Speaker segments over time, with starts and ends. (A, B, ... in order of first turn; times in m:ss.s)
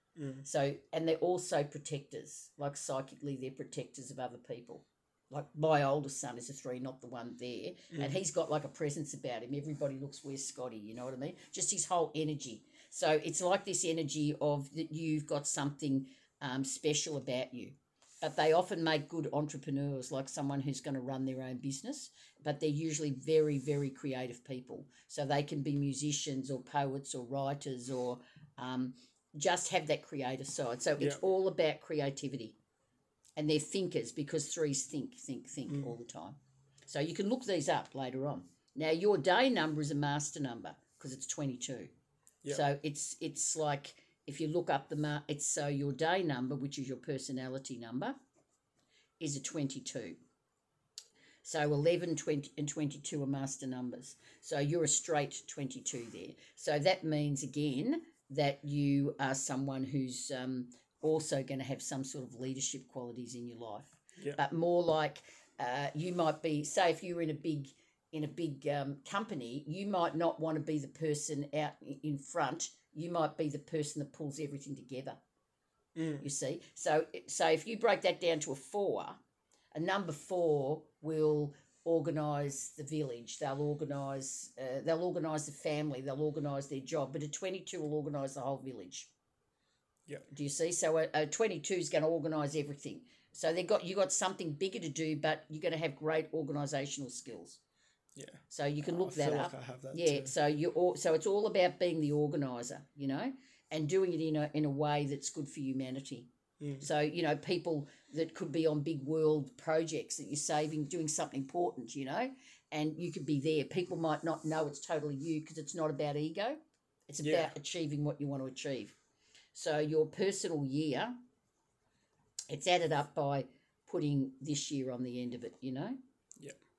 0:00.2-0:00.5 A
0:00.4-0:32.6 B
0:07.9-0:08.2 A
0:31.0-0:31.3 A
0:33.4-0:41.9 B
0:35.7-0:36.0 A
0:42.5-0:48.2 B
0:49.2-0:50.2 B
0:51.4-1:15.2 B
1:04.2-1:04.4 A
1:16.0-1:16.3 A
1:16.2-1:19.2 B
1:19.7-1:29.1 B
1:30.3-1:37.6 B
1:38.2-1:40.3 A
1:38.5-1:46.3 B
1:46.6-1:46.9 A
1:46.8-1:58.9 B
1:57.2-1:57.5 A
1:59.5-2:01.2 B
2:02.5-2:06.0 B